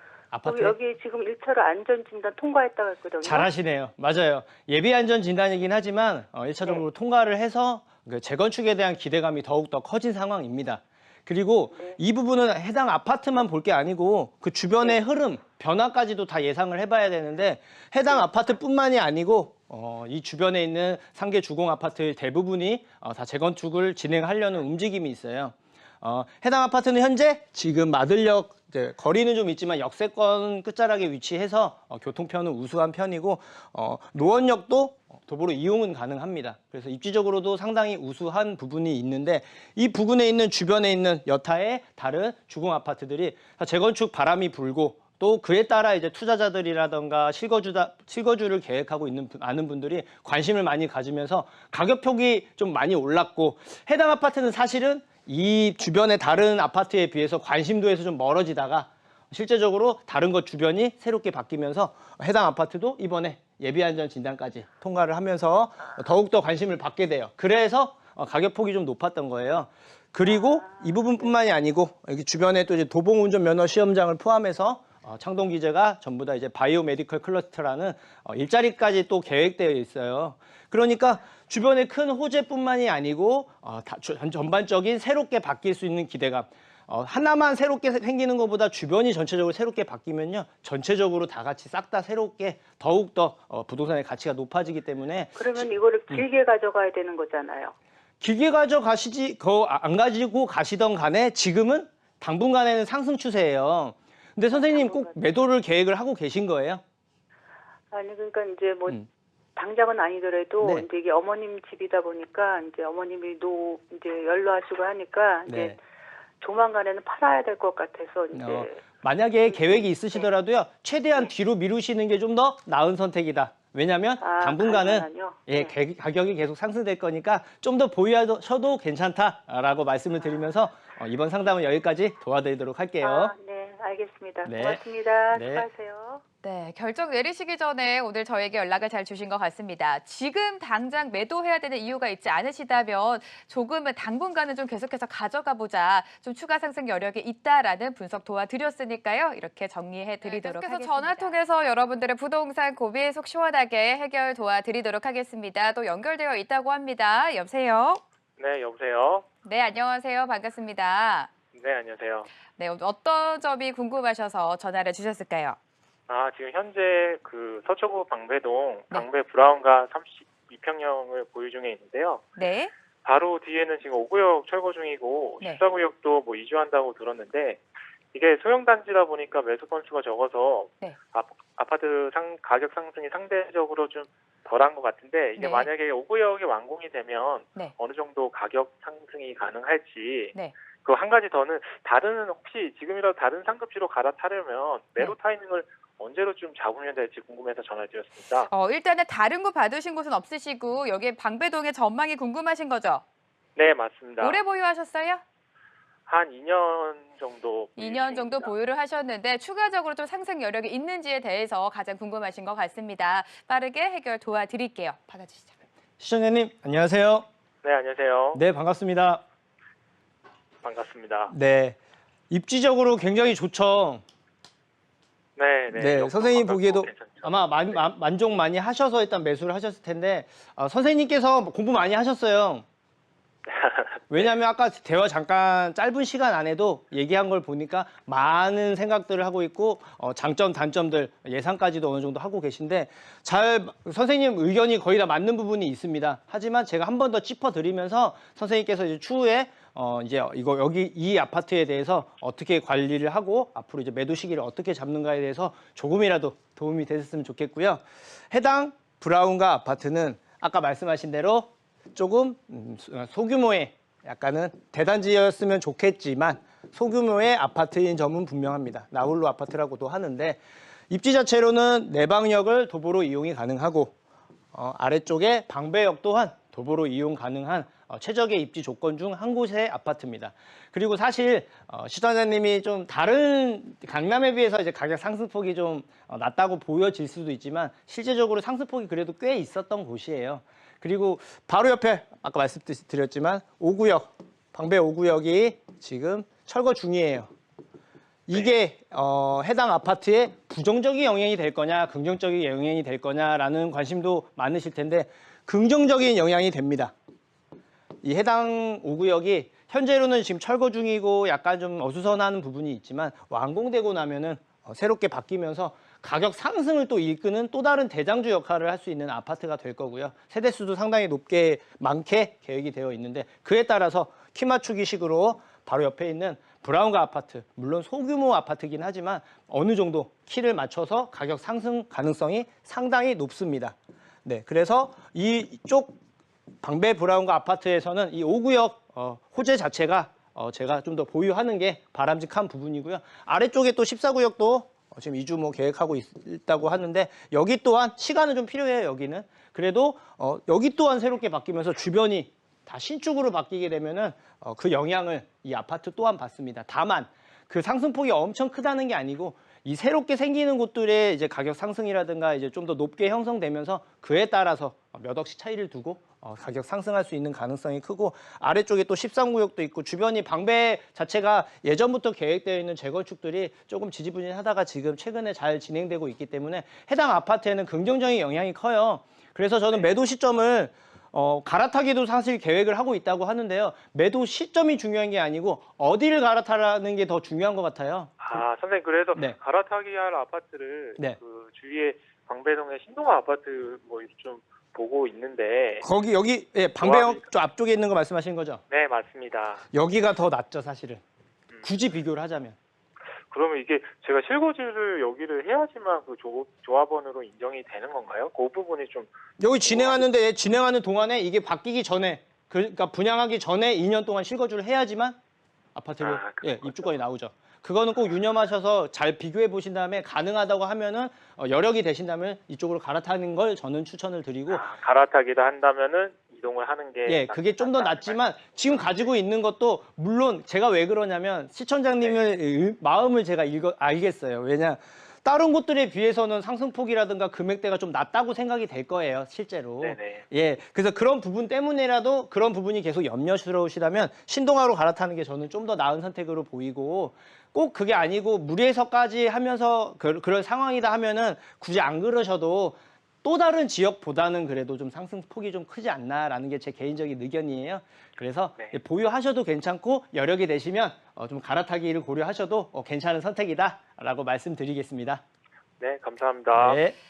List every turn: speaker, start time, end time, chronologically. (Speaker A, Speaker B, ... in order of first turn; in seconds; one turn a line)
Speaker A: 0.3-0.8
Speaker B: 0.4-3.5
Speaker A: 3.2-95.4
Speaker B: 11.7-12.0
Speaker B: 70.2-71.3
Speaker B: 95.3-97.7
Speaker A: 98.2-106.8
Speaker B: 104.5-105.3
Speaker B: 107.9-109.0
Speaker B: 109.5-115.8
Speaker A: 110.6-110.8
Speaker A: 115.5-115.8
Speaker B: 116.4-118.8
Speaker A: 118.3-133.3
Speaker B: 119.5-120.3
Speaker B: 124.2-125.8
Speaker B: 133.0-136.2
Speaker A: 134.4-134.8
Speaker A: 135.3-135.6
Speaker C: 136.4-158.0
Speaker D: 150.3-150.6
Speaker D: 158.4-159.2
Speaker C: 159.4-161.3
Speaker D: 161.5-162.3
Speaker C: 162.6-165.6
Speaker D: 166.1-172.2
Speaker C: 172.3-172.7
Speaker D: 173.0-198.5
Speaker C: 185.4-185.7
Speaker C: 198.5-203.0
Speaker D: 203.6-204.4
Speaker C: 204.2-205.2
Speaker D: 206.1-208.5
Speaker C: 207.8-215.6
Speaker A: 216.0-217.3
Speaker D: 217.6-218.4
Speaker A: 218.3-219.2
Speaker D: 220.6-221.3
Speaker A: 221.3-221.8
Speaker A: 222.3-224.0
Speaker D: 225.4-227.8
Speaker A: 225.7-232.6
Speaker D: 233.5-234.2
Speaker A: 234.1-273.9
Speaker A: 274.5-297.3
Speaker A: 298.3-306.9
Speaker A: 308.0-336.0
Speaker A: 336.6-388.4
Speaker D: 388.2-395.8
Speaker A: 395.8-398.6
Speaker D: 396.8-397.3
Speaker D: 398.7-399.6
Speaker A: 399.7-401.0
Speaker A: 401.6-402.6
Speaker D: 403.3-410.0
Speaker A: 409.4-415.2
Speaker A: 415.7-424.7
Speaker D: 416.0-417.0
Speaker D: 424.5-429.1
Speaker A: 427.1-465.2
Speaker D: 439.8-440.2
Speaker D: 465.8-466.8
Speaker A: 466.5-466.9